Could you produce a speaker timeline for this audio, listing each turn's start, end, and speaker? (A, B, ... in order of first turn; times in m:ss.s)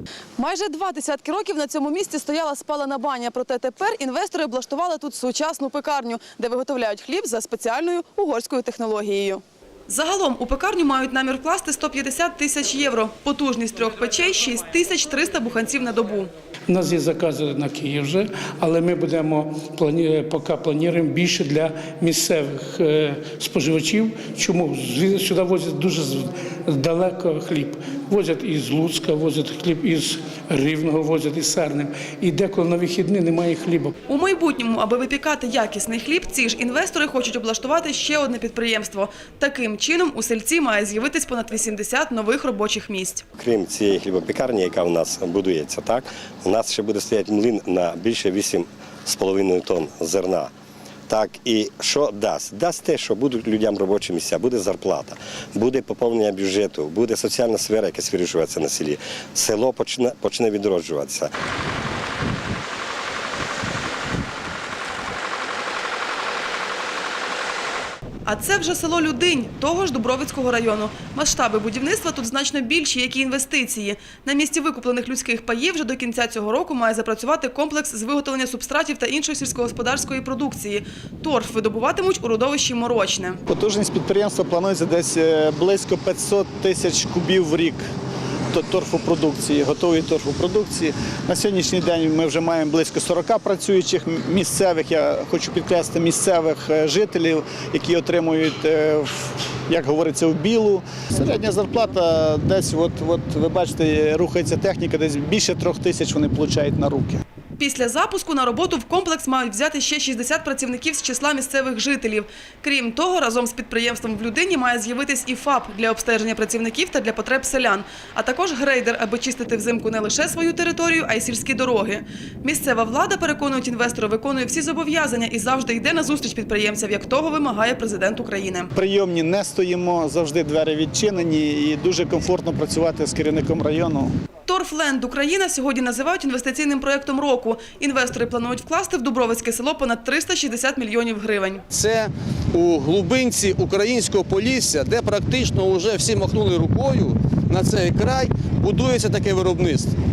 0:00.4-0:16.3 A
0:16.7-0:33.9 B
0:34.1-0:43.2 A
0:43.4-0:50.5 C
0:51.1-1:01.3 C
1:08.2-1:23.4 A
1:23.5-1:27.8 D
1:28.5-1:47.2 D
1:47.6-2:08.7 A
2:08.8-2:14.1 D
2:14.4-2:21.6 A
2:21.7-2:29.9 E